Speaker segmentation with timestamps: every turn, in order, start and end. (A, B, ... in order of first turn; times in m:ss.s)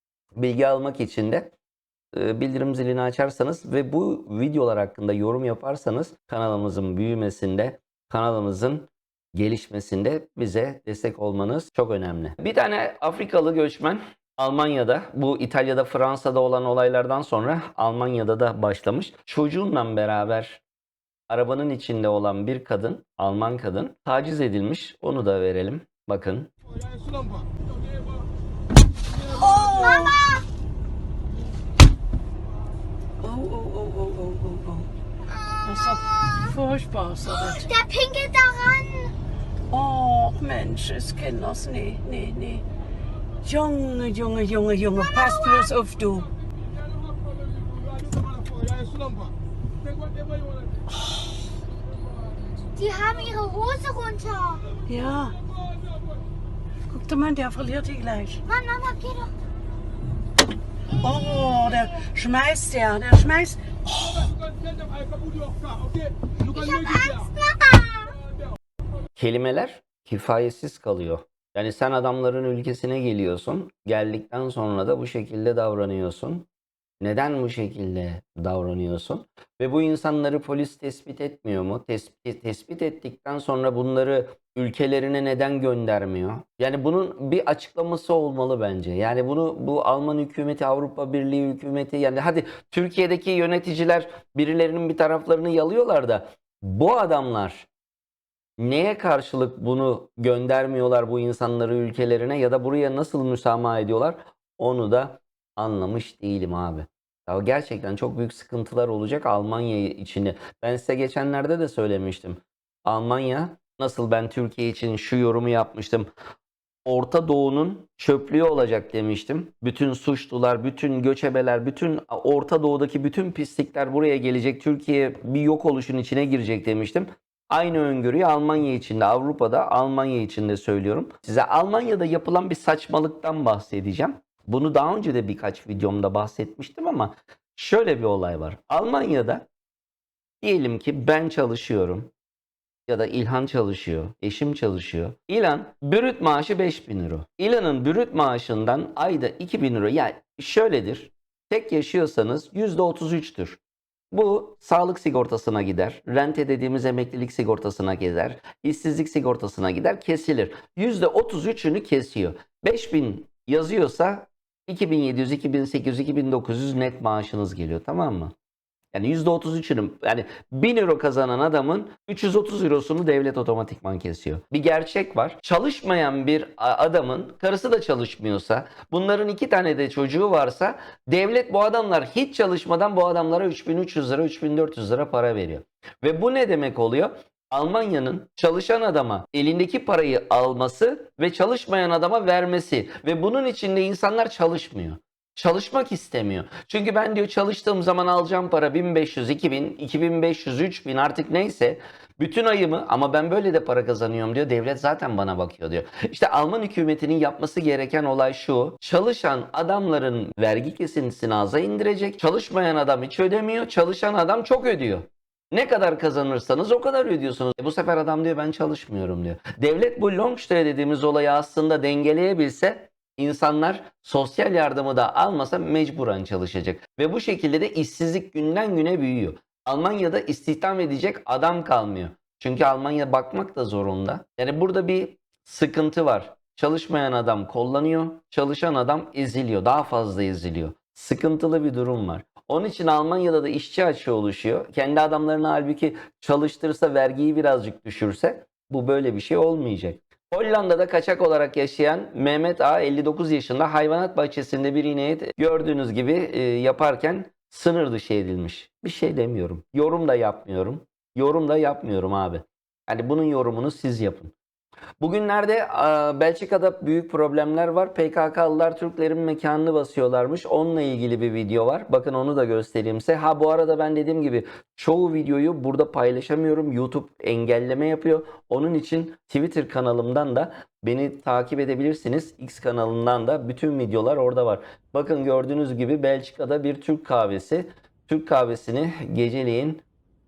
0:00.3-0:01.5 A
0:02.1-0:20.6 A
0:21.3-0:26.5 A
0:29.4-0:30.1 B
0:29.4-0:30.4 C
0:33.2-0:34.9 B
0:35.6-0:36.5 C
0:35.6-0:37.6 B
0:37.3-0:39.1 C
0:39.7-0:42.6 B
0:43.4-0:46.3 B
0:44.9-0:45.7 C
0:52.7-0:54.6 C
0:54.9-0:55.3 B
0:56.9-0:58.4 B
0:58.4-0:59.3 C
1:01.0-1:04.3 B
1:06.4-1:08.1 C
1:09.1-1:16.5 A
1:17.0-1:37.7 A
1:38.6-1:56.1 A
1:56.8-2:19.4 A
2:20.4-2:22.1 A
2:22.9-2:33.6 A
2:34.1-2:48.3 A
2:48.9-4:24.3 A
4:25.0-4:49.8 A